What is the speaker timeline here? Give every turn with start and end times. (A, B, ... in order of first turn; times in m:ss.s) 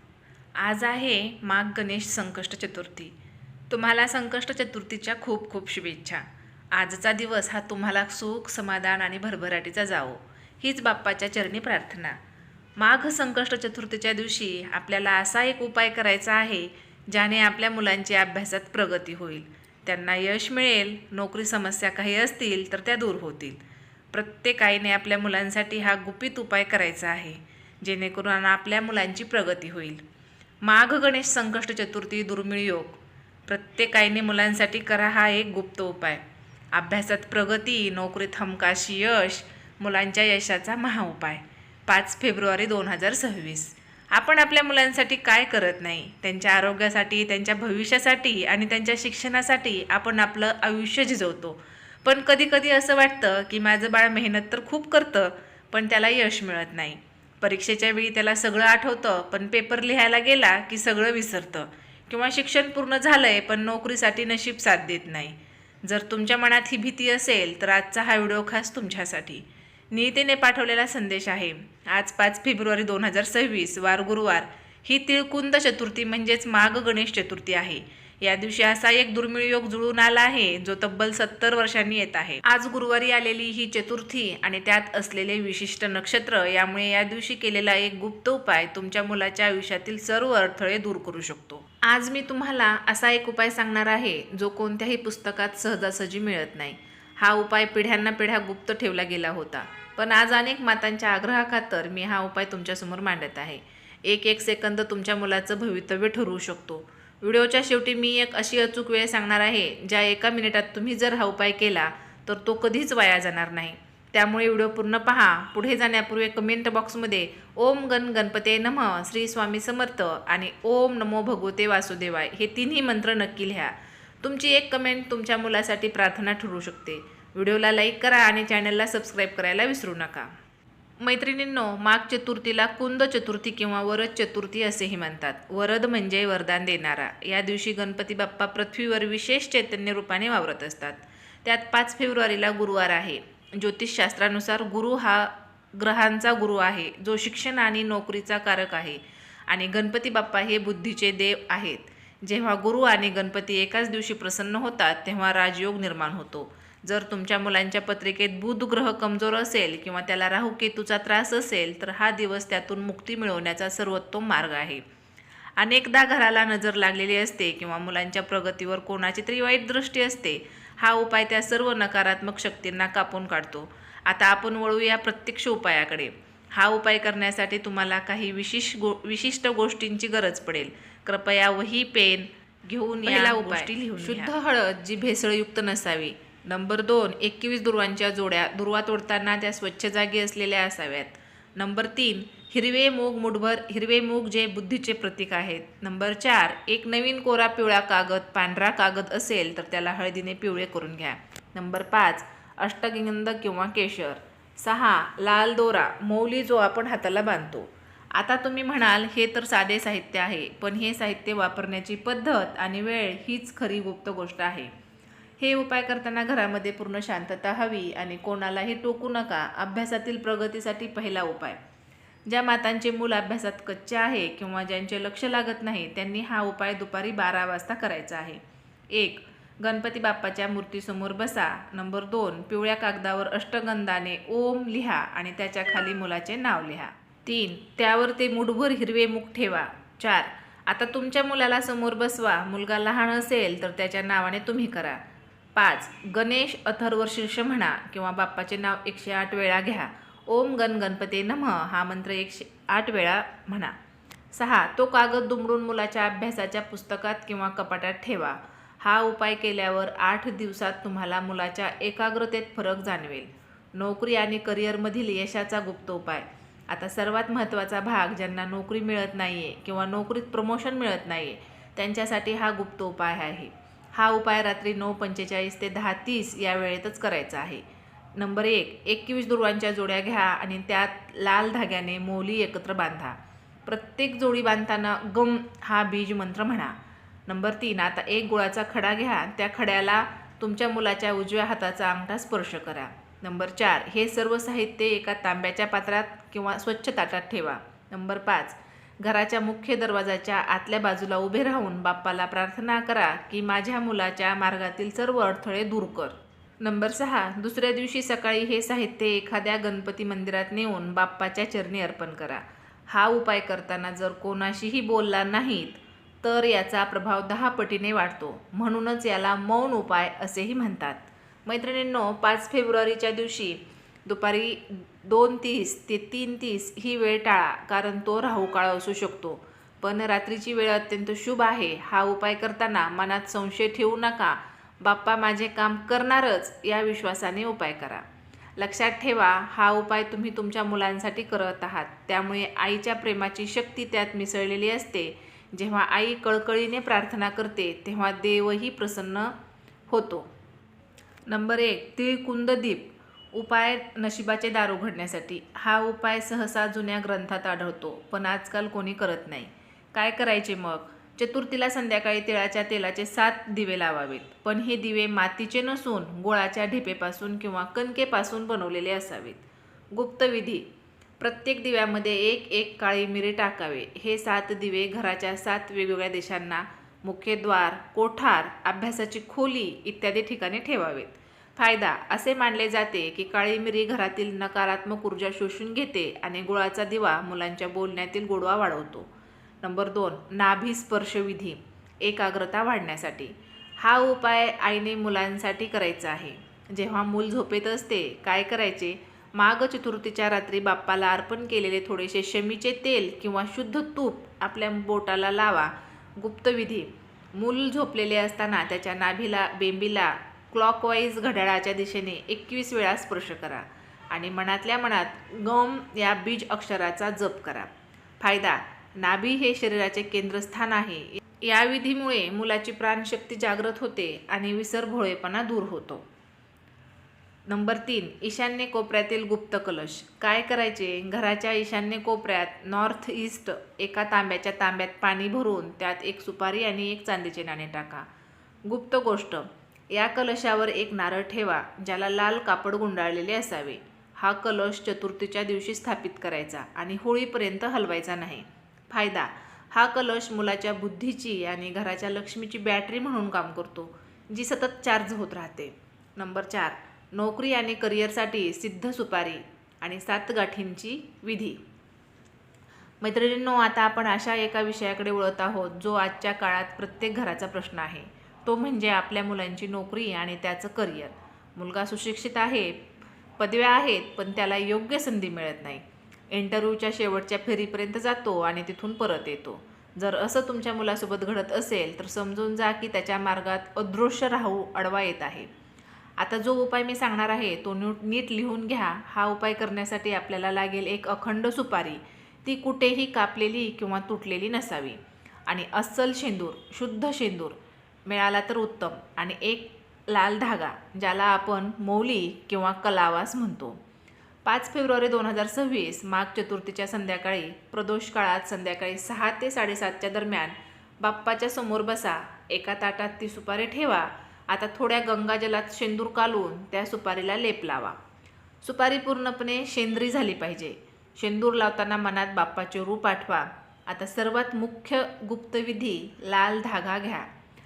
0:00.6-0:03.1 A
0:03.7-0:12.2 A
0:12.8-0:23.6 A
0:24.1-0:30.0 A
0:30.6-0:36.2 A
0:36.7-2:10.3 A
2:11.0-2:44.8 A
2:45.6-3:34.7 A
3:35.4-3:41.6 A
3:42.3-3:48.4 A
3:48.9-4:05.0 A
4:05.5-4:13.7 A
4:14.3-4:37.6 A
4:38.2-4:46.7 A
4:47.3-5:38.0 A
5:38.6-5:49.3 A
5:49.9-5:50.3 A
5:51.3-6:09.4 A
6:09.9-6:10.6 A
6:11.2-6:29.1 A
6:29.6-7:06.0 A
7:07.5-7:18.0 A
7:18.6-7:41.6 A
7:43.0-7:52.8 A
7:53.4-8:05.5 A
8:06.2-8:23.8 A
8:24.4-8:38.0 A
8:38.6-8:47.3 A